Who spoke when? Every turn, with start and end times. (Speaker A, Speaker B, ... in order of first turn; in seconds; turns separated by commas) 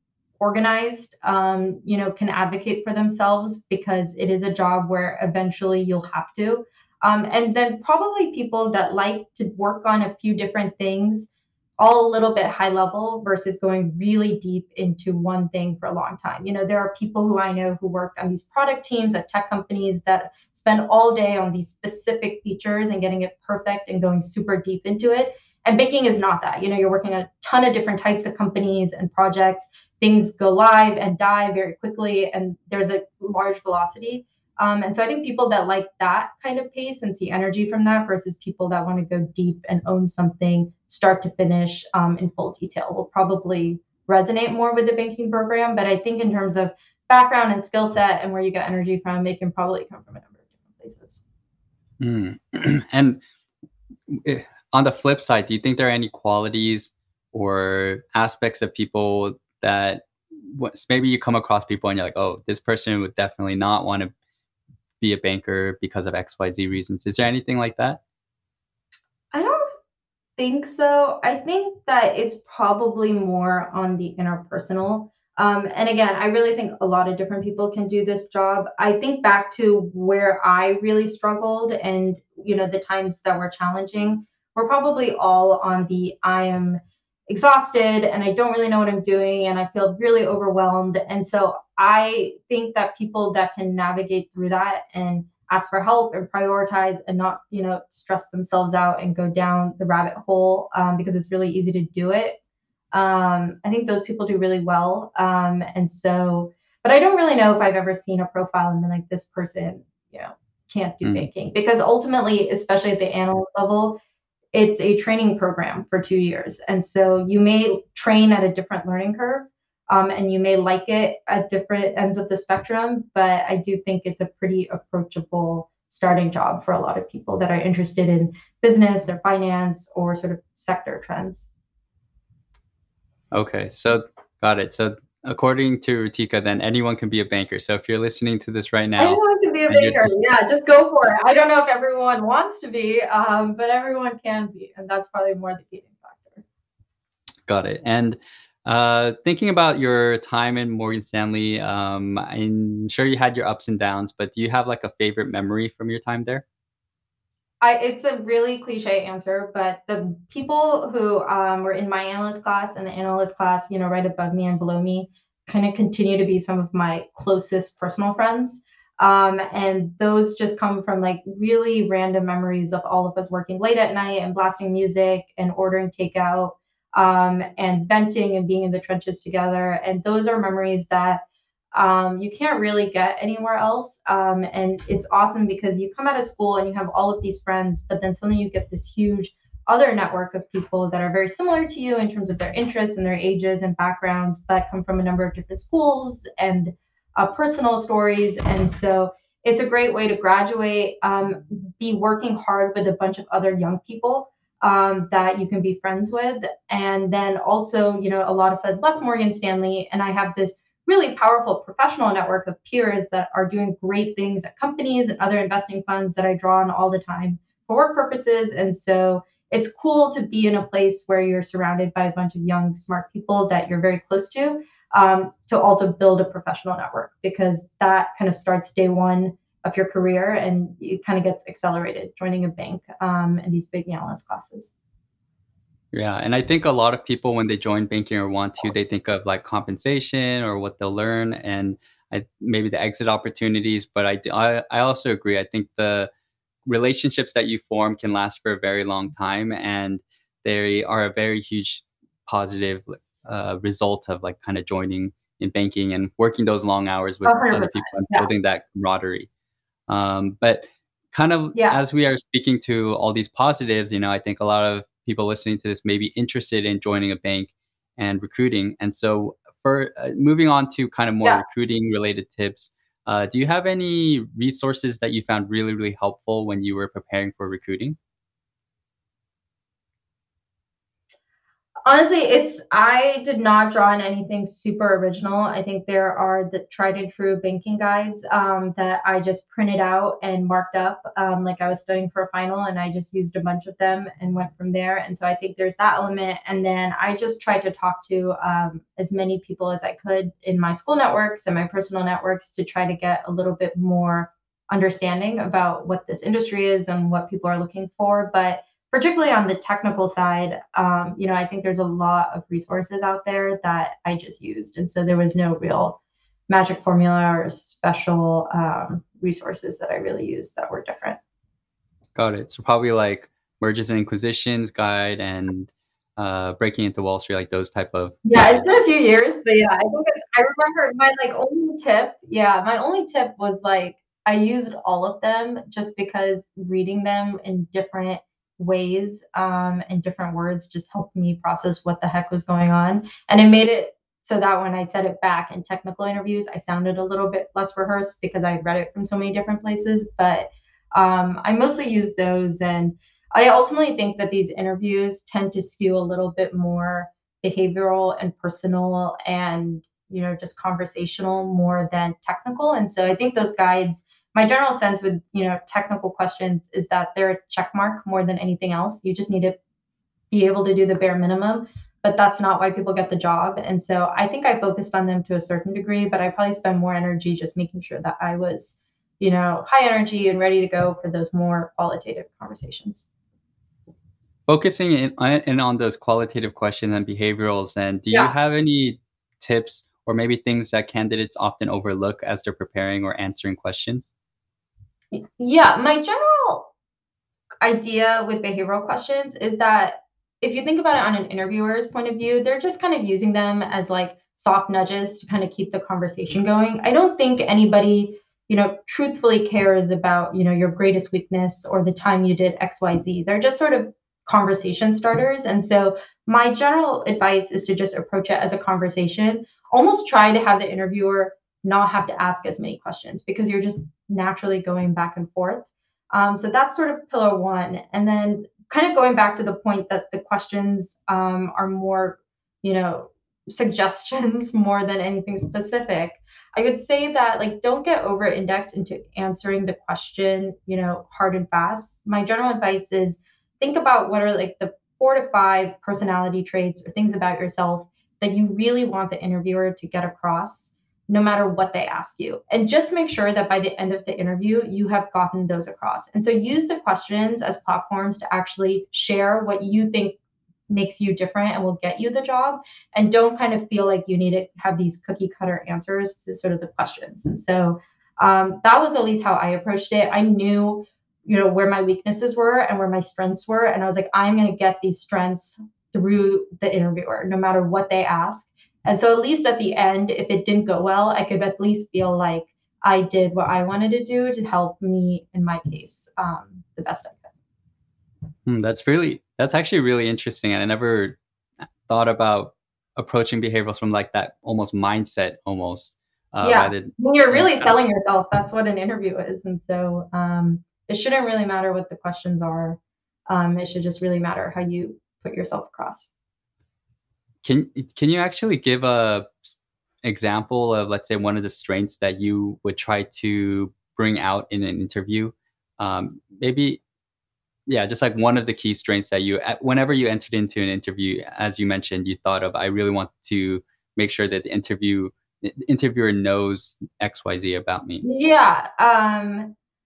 Speaker A: 0.4-51.2, Speaker B: 52.0-53.2, Speaker B: 54.1-64.1, Speaker B: 65.0-68.0, Speaker A: 69.3-69.7, Speaker A: 70.4-102.4, Speaker A: 102.9-114.0, Speaker A: 114.5-131.5, Speaker B: 133.3-140.1, Speaker A: 139.0-146.4, Speaker B: 147.5-156.4, Speaker A: 157.6-181.2, Speaker A: 181.7-234.7, Speaker B: 235.9-246.1, Speaker B: 246.7-259.3, Speaker A: 257.2-258.3, Speaker B: 259.9-278.0, Speaker A: 261.5-261.8, Speaker A: 281.9-316.0, Speaker A: 316.5-321.2, Speaker B: 322.1-328.8, Speaker A: 328.2-369.6, Speaker A: 370.3-383.1, Speaker B: 384.5-394.1, Speaker A: 395.1-396.7, Speaker A: 397.6-460.2, Speaker A: 460.7-487.3, Speaker B: 488.5-491.2, Speaker B: 491.9-497.7, Speaker A: 496.4-506.1, Speaker B: 507.4-509.5, Speaker B: 510.0-516.8, Speaker B: 517.7-528.0, Speaker A: 528.0-529.5